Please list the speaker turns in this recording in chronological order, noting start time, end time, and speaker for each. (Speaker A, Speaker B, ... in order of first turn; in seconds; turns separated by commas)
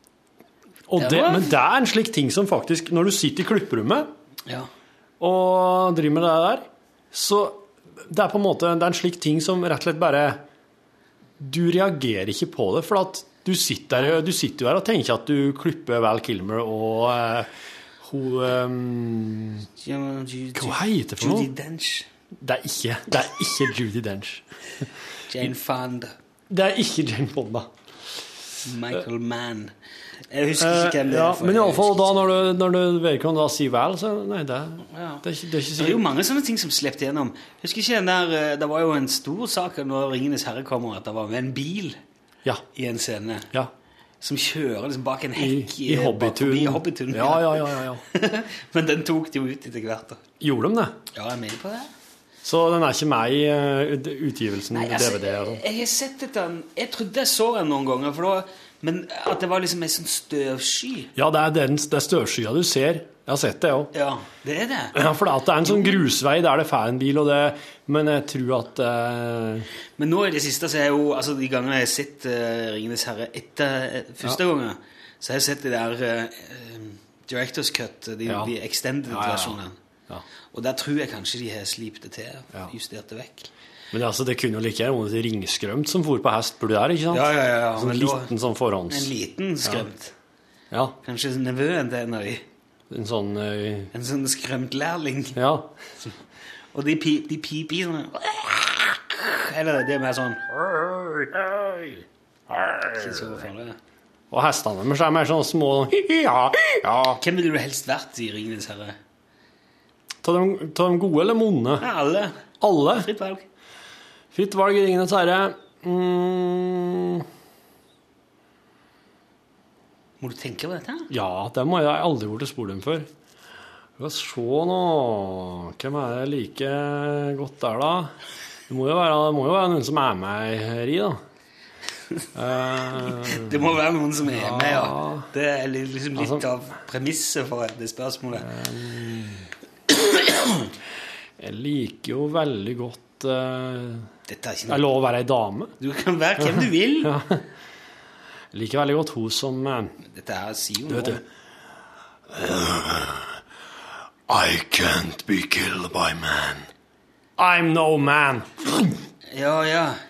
Speaker A: 0.9-4.1, Speaker B: 1.0-1.5, Speaker A: 5.2-10.4, Speaker A: 11.4-17.5, Speaker A: 18.0-19.7, Speaker B: 19.8-22.1, Speaker A: 20.6-21.5, Speaker A: 22.4-24.4, Speaker B: 25.3-26.1, Speaker A: 26.5-27.7, Speaker B: 28.6-29.7, Speaker B: 30.3-32.2, Speaker A: 30.6-36.0, Speaker B: 34.9-42.0, Speaker B: 42.7-43.5, Speaker B: 44.2-50.2, Speaker A: 45.4-48.0, Speaker A: 50.4-51.0, Speaker B: 51.1-51.9, Speaker A: 52.4-55.6, Speaker B: 54.7-61.1, Speaker A: 61.1-63.9, Speaker B: 63.9-65.0, Speaker A: 65.0-69.7, Speaker B: 65.7-66.0, Speaker B: 70.0-79.8, Speaker A: 78.3-78.5, Speaker A: 79.1-79.6, Speaker B: 80.5-83.5, Speaker A: 83.9-89.1, Speaker B: 87.1-88.3, Speaker B: 88.9-90.1, Speaker A: 90.7-91.0, Speaker B: 91.0-92.4, Speaker A: 92.9-93.9, Speaker B: 93.9-95.4, Speaker A: 95.4-95.7, Speaker B: 96.7-100.6, Speaker A: 100.9-101.9, Speaker A: 102.5-103.0, Speaker B: 103.0-103.8, Speaker A: 104.3-107.2, Speaker B: 107.2-109.0, Speaker A: 110.2-111.8, Speaker B: 111.8-113.5, Speaker A: 112.6-113.1, Speaker A: 114.3-117.2, Speaker B: 120.2-121.1, Speaker A: 121.1-123.1, Speaker A: 124.0-128.1, Speaker A: 128.7-131.2, Speaker A: 132.3-133.7, Speaker B: 133.1-138.5, Speaker A: 134.3-135.3, Speaker A: 136.2-136.4, Speaker A: 138.4-139.5, Speaker B: 140.0-140.6, Speaker A: 141.4-144.1, Speaker B: 144.3-144.9, Speaker A: 144.7-145.7, Speaker B: 145.8-147.1, Speaker A: 146.4-147.4, Speaker A: 148.5-149.9, Speaker B: 150.0-151.2, Speaker A: 150.9-151.2, Speaker A: 152.3-153.4, Speaker A: 154.3-156.7, Speaker A: 157.4-159.0, Speaker B: 159.3-160.0